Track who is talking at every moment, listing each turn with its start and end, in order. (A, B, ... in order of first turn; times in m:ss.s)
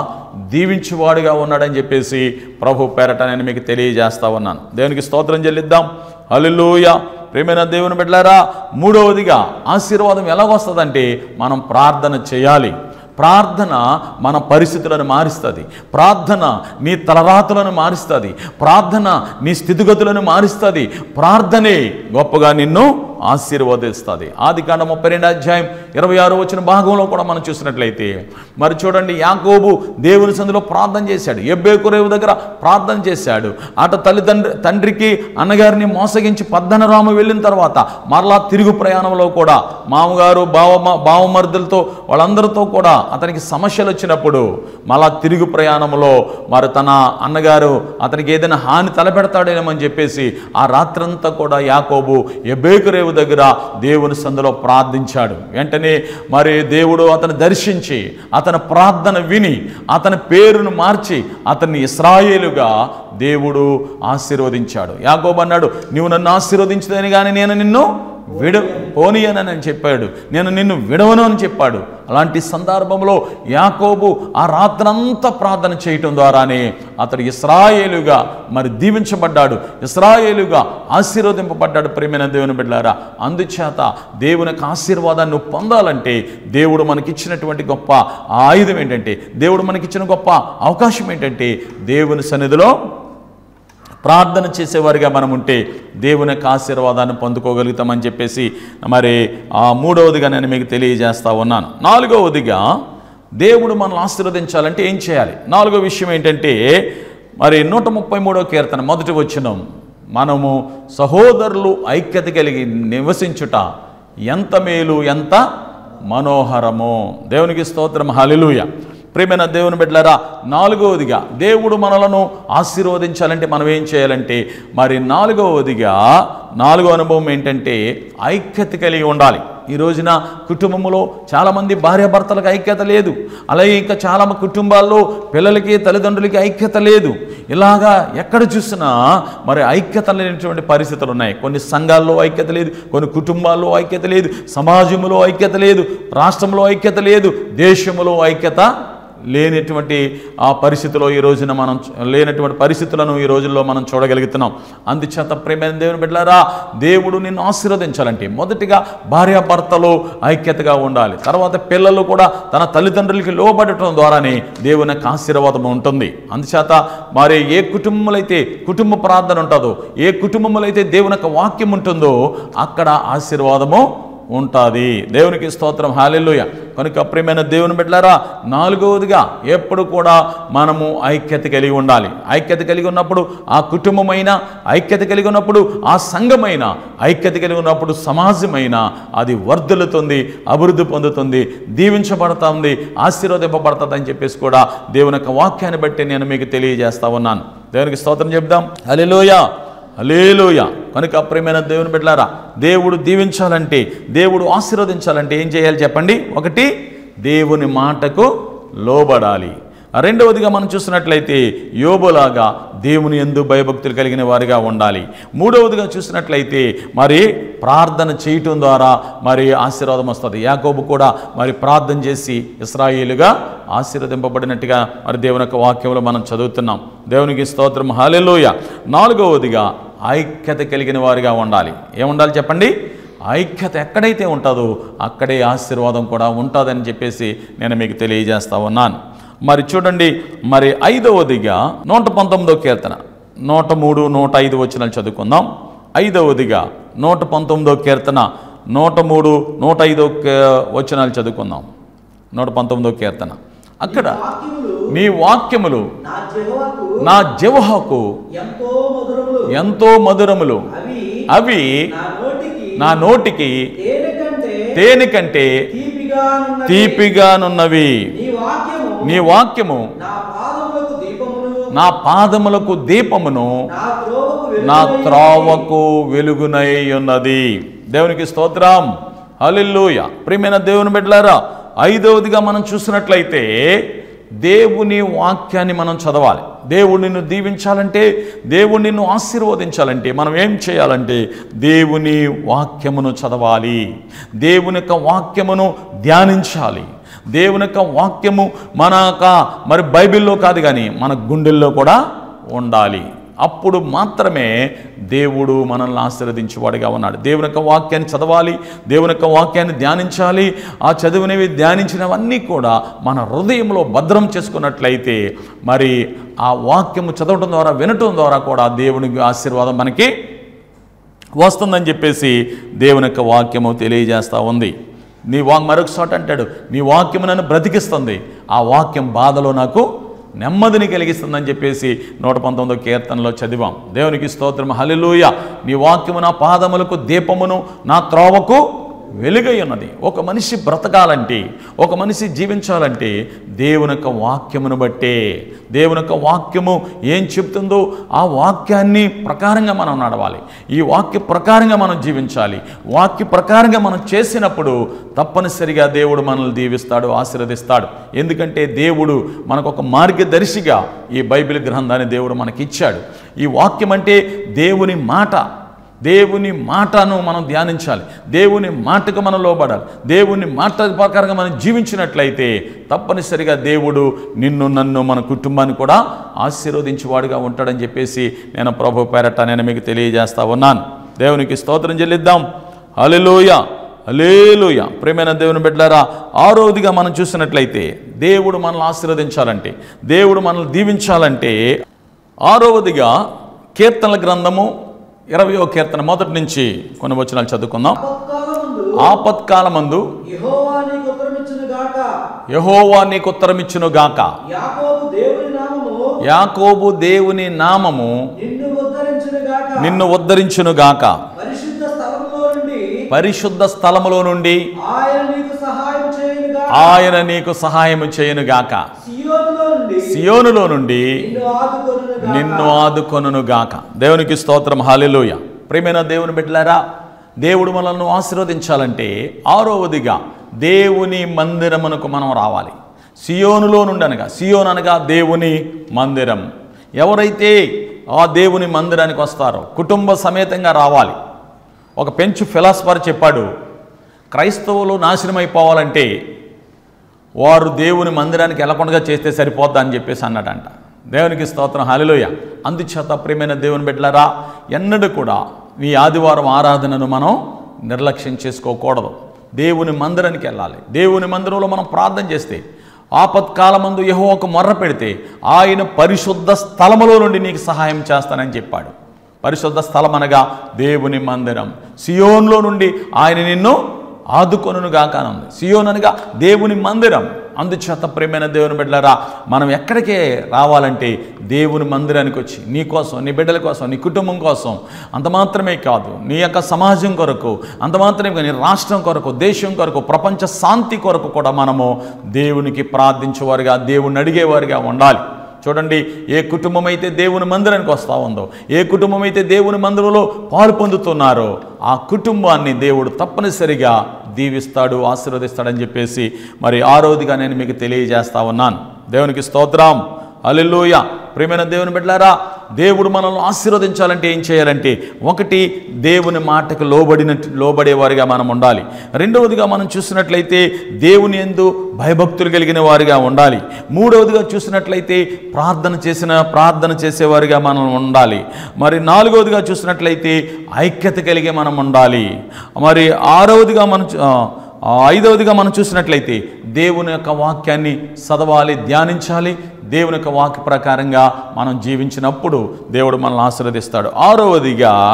0:00.5-1:32.7 A
1:08.3-1:08.9 B
1:34.0-1:42.6 A
1:43.4-1:46.6 A
1:47.4-1:49.6 A
1:50.2-1:53.6 A
1:54.3-1:55.4 A
1:56.1-2:06.0 A
2:06.6-2:28.7 A
2:29.3-3:26.7 A
3:27.2-3:52.7 A
3:53.3-4:11.7 A
4:12.3-4:14.2 A
4:13.9-4:14.9 B
4:14.9-4:15.9 A
4:16.0-4:17.1 B
4:17.0-4:18.0 A
4:18.3-4:19.5 B
4:19.5-4:20.6 A
4:20.7-4:21.2 B
4:21.3-4:21.8 A
4:21.9-4:22.9 B
4:22.8-4:23.6 A
4:23.8-4:24.7 B
4:24.7-4:25.6 A
4:25.7-4:27.0 B
4:26.6-4:28.0 A
4:28.1-4:29.2 B
4:29.0-4:29.9 A
4:30.0-4:31.7 B
4:31.7-4:33.6 A
4:33.7-4:35.6 B
4:34.6-4:43.9 A
4:44.4-4:53.8 A
4:54.4-5:02.0 A
5:02.5-5:04.5 A
5:05.1-5:20.1 A
5:21.4-5:24.7 A
5:25.3-5:29.9 A
5:30.4-5:45.2 A
5:45.7-6:05.4 A
6:06.0-6:22.4 A
6:23.0-6:31.6 A
6:32.4-6:33.1 A
6:33.8-6:34.7 A
6:35.3-6:38.0 A
6:37.9-6:39.1 B
6:39.0-6:40.0 A
6:40.2-6:42.1 B
6:42.5-6:44.3 A
6:44.5-6:46.0 B
6:46.2-6:48.1 A
6:48.4-6:50.0 B
6:49.8-6:51.2 A
6:51.3-6:53.0 B
6:53.1-6:54.6 A
6:54.8-6:57.1 B
6:56.7-6:58.9 A
6:59.0-7:00.2 B
7:00.0-7:01.2 A
7:01.1-7:02.9 B
7:02.2-7:06.8 A
7:07.4-7:16.4 A
7:17.0-7:17.6 A
7:18.1-7:21.2 A
7:22.0-7:23.5 A
7:24.3-7:26.1 A
7:27.4-7:42.6 A
7:43.2-7:53.8 A
7:54.3-9:05.0 A